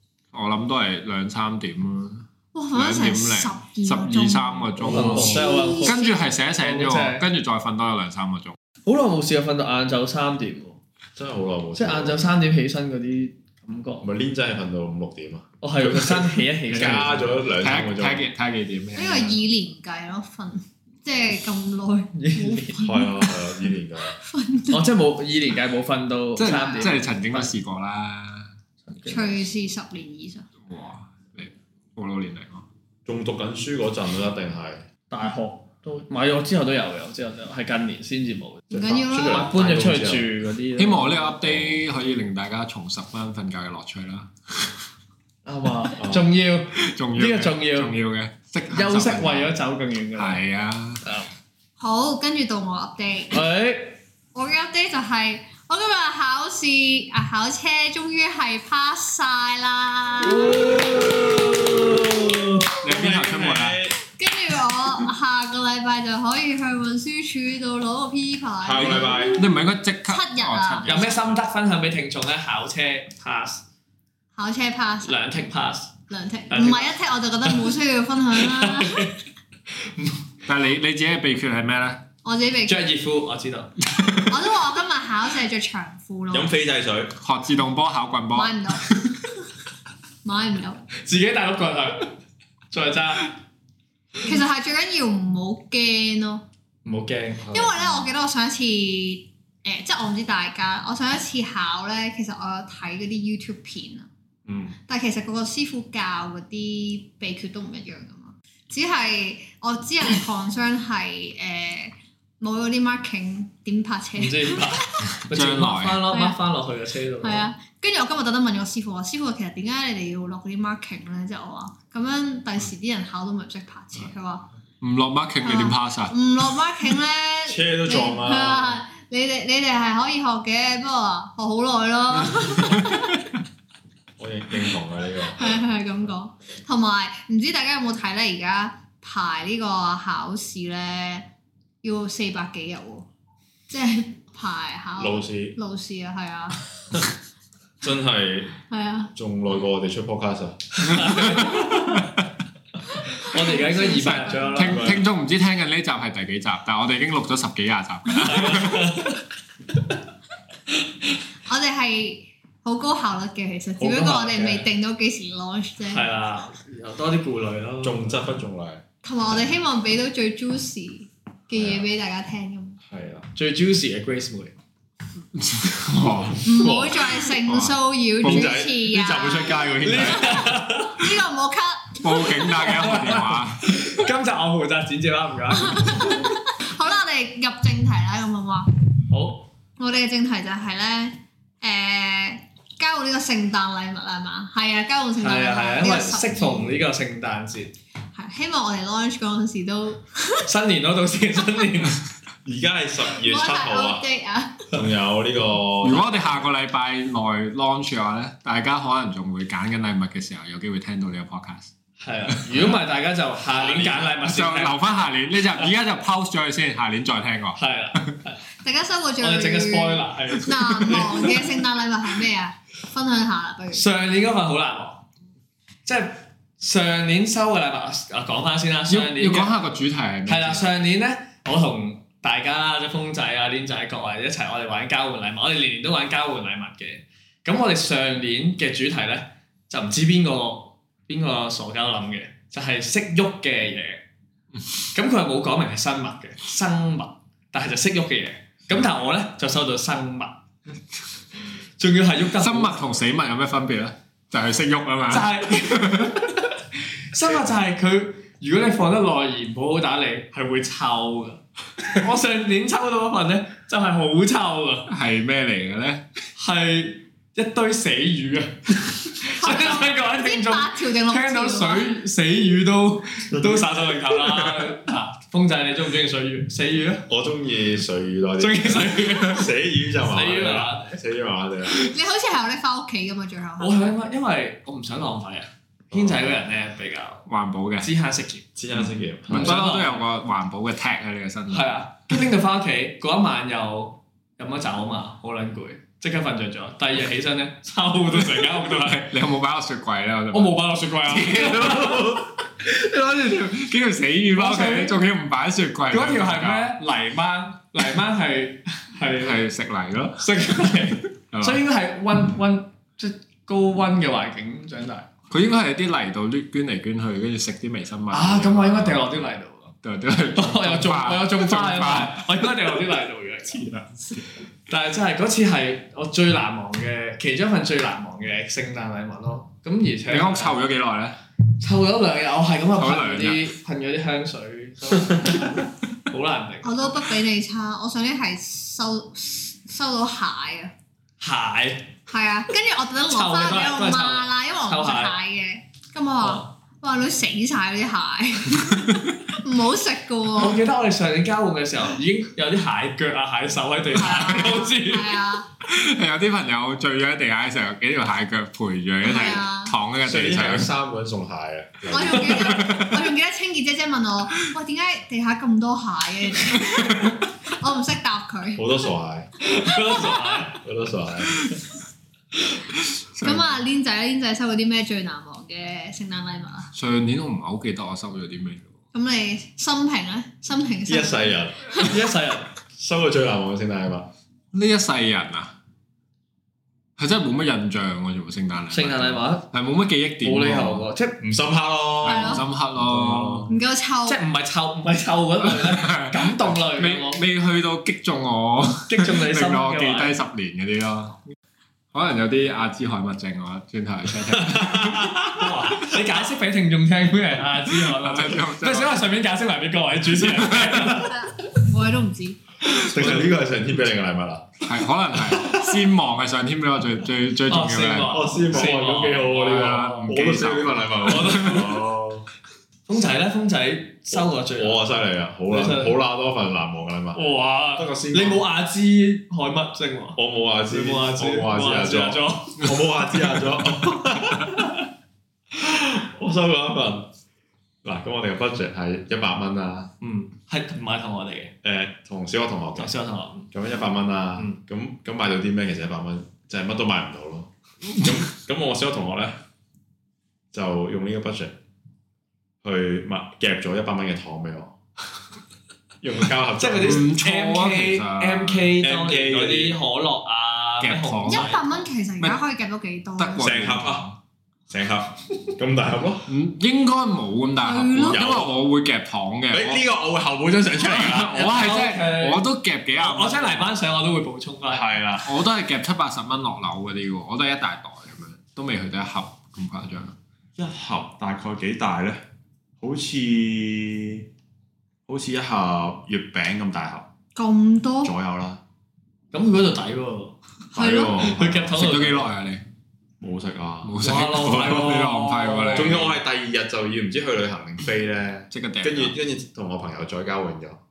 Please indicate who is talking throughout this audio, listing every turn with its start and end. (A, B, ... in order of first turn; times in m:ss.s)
0:00.3-0:08.6 A
0:02.5-0:06.2 B
0:04.8-0:05.6 C
0:04.8-0:06.0 D
0:06.6-0:07.2 D
0:08.8-0:10.8 D
0:11.1-0:12.3 C
0:11.8-0:14.1 D
0:14.0-0:16.0 C
0:15.6-0:17.3 D
0:16.7-0:19.4 A
0:16.7-0:18.3 C
0:19.0-0:24.8 B
0:22.1-0:22.8 D
0:22.8-0:24.2 C
0:24.7-0:27.5 D
0:26.4-0:28.5 A
0:26.4-0:27.0 B
0:28.8-0:29.4 D
0:29.1-0:30.4 B
0:30.7-0:32.6 A
0:33.0-0:34.8 C
0:35.1-0:41.1 D
0:38.7-0:40.3 C
0:38.7-0:39.5 B
0:40.8-0:44.8 A
0:41.4-0:41.8 C
0:45.4-0:48.0 D
0:46.0-0:46.3 C
0:46.8-0:49.6 A
0:48.7-0:50.4 D
0:50.2-0:51.0 A
0:51.0-0:51.3 D
0:51.8-0:53.4 B
0:53.3-0:54.0 D
0:54.3-1:00.8 B
1:00.2-1:02.7 D
1:02.8-1:03.9 A
1:02.8-1:04.0 C
1:04.1-1:09.3 B
1:08.6-1:09.4 C
1:08.8-1:09.4 D
1:08.9-1:11.4 A
1:10.1-1:11.1 B
1:10.8-1:13.6 D
1:14.3-1:15.2 B
1:15.0-1:17.7 D
1:16.1-1:19.2 B
1:18.4-1:19.2 D
1:19.8-1:20.2 D
1:20.4-1:22.0 A
1:22.2-1:22.9 B
1:22.6-1:23.7 D
1:24.0-1:24.3 A
1:24.2-1:26.5 B
1:26.3-1:27.1 C
1:27.2-1:29.2 A
1:28.3-1:28.8 B
1:30.2-1:30.9 B
1:31.0-1:32.1 D
1:32.7-1:33.4 D
1:34.2-1:36.4 B
1:36.8-1:37.5 D
1:37.4-1:38.0 C
1:37.5-1:44.1 B
1:44.5-1:44.7 C
1:44.9-1:55.1 B
1:54.2-1:57.5 D
1:55.2-1:56.0 A
1:56.1-1:56.4 B
1:57.2-2:04.5 B
2:04.8-2:06.2 A
2:05.4-2:13.3 B
2:07.4-2:08.8 C
2:14.2-2:15.6 C
2:15.2-2:21.3 B
2:21.8-2:23.1 B
2:23.7-2:26.6 B
2:25.0-2:25.6 C
2:27.8-2:28.6 C
2:28.7-2:29.1 B
2:29.1-2:31.0 C
2:30.8-2:32.0 D
2:33.1-2:34.7 B
2:33.2-2:34.9 D
2:33.6-2:39.0 A
2:34.6-2:35.1 C
2:38.2-2:39.2 D
2:41.4-2:46.1 B
2:43.8-2:44.7 C
2:45.9-2:48.4 D
2:47.8-2:48.8 C
2:49.0-2:52.8 B
2:51.5-2:51.9 C
2:52.9-2:53.2 C
2:53.3-2:54.5 D
2:55.4-2:56.4 A
2:56.4-3:00.0 B
2:56.4-2:57.2 C
2:57.4-2:58.6 A
2:58.2-3:00.7 C
2:59.8-3:01.1 D
3:00.8-3:02.5 B
3:02.0-3:03.9 A
3:02.5-3:06.3 D
3:05.6-3:08.7 B
3:09.1-3:09.5 D
3:09.8-3:16.8 B
3:15.2-3:17.7 D
3:18.1-3:20.4 B
3:20.4-3:22.0 D
3:22.4-3:24.0 C
3:23.1-3:24.7 B
3:24.7-3:26.5 C
3:25.8-3:31.7 A
3:32.0-3:34.8 D
3:32.3-3:32.8 A
3:33.6-3:34.1 C
3:34.2-3:38.2 A
3:37.6-3:38.4 D
3:38.6-3:43.8 B
3:39.2-3:41.6 D
3:43.7-3:45.0 D
3:45.8-3:49.6 D
3:48.9-3:50.8 A
3:50.2-4:04.0 D
4:04.9-4:10.4 D
4:11.8-4:12.8 D
4:12.4-4:16.5 A
4:15.1-4:16.5 D
4:17.1-4:24.9 D
4:24.9-4:26.0 A
4:26.4-4:37.1 D
4:29.3-4:31.9 B
4:33.3-4:34.7 C
4:37.1-4:41.9 C
4:38.4-4:41.0 D
4:41.7-4:43.8 B
4:43.6-4:47.2 D
4:45.9-4:46.3 C
4:47.3-4:47.9 A
4:47.8-4:48.5 D
4:48.6-4:49.6 C
4:49.3-4:50.0 D
4:49.3-4:51.7 A
4:51.5-4:59.2 D
4:59.1-5:06.7 A
5:00.3-5:02.2 D
5:01.8-5:02.1 C
5:04.3-5:05.0 D
5:05.9-5:09.4 D
5:09.2-5:11.6 A
5:10.2-5:15.1 D
5:15.3-5:19.1 A
5:18.1-5:19.7 D
5:19.8-5:22.5 A
5:20.3-5:30.6 D
5:30.1-5:31.2 A
5:31.6-5:36.9 D
5:32.8-5:33.5 A
5:36.6-5:40.7 B
5:41.2-5:42.0 D
5:42.1-5:50.6 B
5:43.1-5:45.1 D
5:46.2-5:46.5 D
5:48.6-5:49.0 A
5:50.4-5:55.2 D
5:53.9-5:55.5 B
5:55.6-6:00.7 A
5:59.0-5:59.7 B
6:00.0-6:02.6 C
6:01.9-6:08.8 B
6:02.5-6:03.1 A
6:06.5-6:07.2 A
6:08.6-6:09.3 C
6:09.4-6:10.6 D
6:10.6-6:11.5 C
6:12.9-6:13.5 A
6:13.2-6:16.7 B
6:16.7-6:18.7 A
6:18.9-6:21.9 B
6:20.9-6:21.9 C
6:21.7-6:22.5 D
6:22.7-6:24.1 C
6:24.5-6:25.5 A
6:27.0-6:30.8 A
6:28.7-6:29.5 D
6:30.2-6:31.2 D
6:31.2-6:33.5 C
6:32.0-6:32.4 B
6:32.0-6:33.5 A
6:33.5-6:34.2 B
6:34.1-6:37.2 D
6:35.4-6:41.2 A
6:38.9-6:40.1 D
6:41.9-6:45.2 A
6:44.4-6:45.5 C
6:45.3-6:51.2 D
6:47.7-6:49.0 A
6:50.2-6:50.9 A
6:50.8-6:52.4 B
6:52.7-6:53.2 A
6:52.8-6:54.6 C
6:54.6-7:01.5 A
6:55.2-6:55.6 C
6:57.5-7:00.1 D
6:58.1-7:02.3 C
7:01.0-7:01.8 D
7:02.9-7:04.9 D
7:04.1-7:07.2 C
7:05.5-7:05.9 D
7:07.1-7:12.7 D
7:07.8-7:08.4 C
7:10.2-7:14.8 C
7:15.5-7:17.1 C
7:17.8-7:19.9 C
7:20.0-7:21.5 D
7:21.6-7:22.9 C
7:22.8-7:23.5 D
7:23.5-7:29.4 C
7:30.5-7:31.6 C
7:32.6-7:34.7 C
7:36.0-7:37.1 C
7:36.6-7:41.8 D
7:36.8-7:38.7 A
7:38.8-7:39.8 C
7:40.8-7:41.6 A
7:41.3-7:43.5 B
7:43.2-7:44.1 A
7:43.4-7:44.1 C
7:44.7-7:46.3 C
7:46.3-7:49.8 A
7:47.6-7:48.2 B
7:48.1-7:48.5 C
7:49.5-7:51.4 C
7:50.8-7:53.8 A
7:51.2-7:52.4 D
7:53.0-7:54.8 D
7:54.7-7:55.3 C
7:55.2-8:00.1 A
8:00.6-8:02.2 C
8:02.8-8:04.3 C
8:05.1-8:07.1 C
8:07.3-8:08.1 B
8:08.0-8:08.6 C
8:09.3-8:10.4 D
8:10.7-8:11.8 C
8:10.7-8:11.3 B
8:11.1-8:12.3 D
8:11.7-8:12.6 A
8:13.2-8:14.9 C
8:13.8-8:16.1 A
8:14.0-8:16.0 D
8:15.7-8:20.8 C
8:18.5-8:19.2 A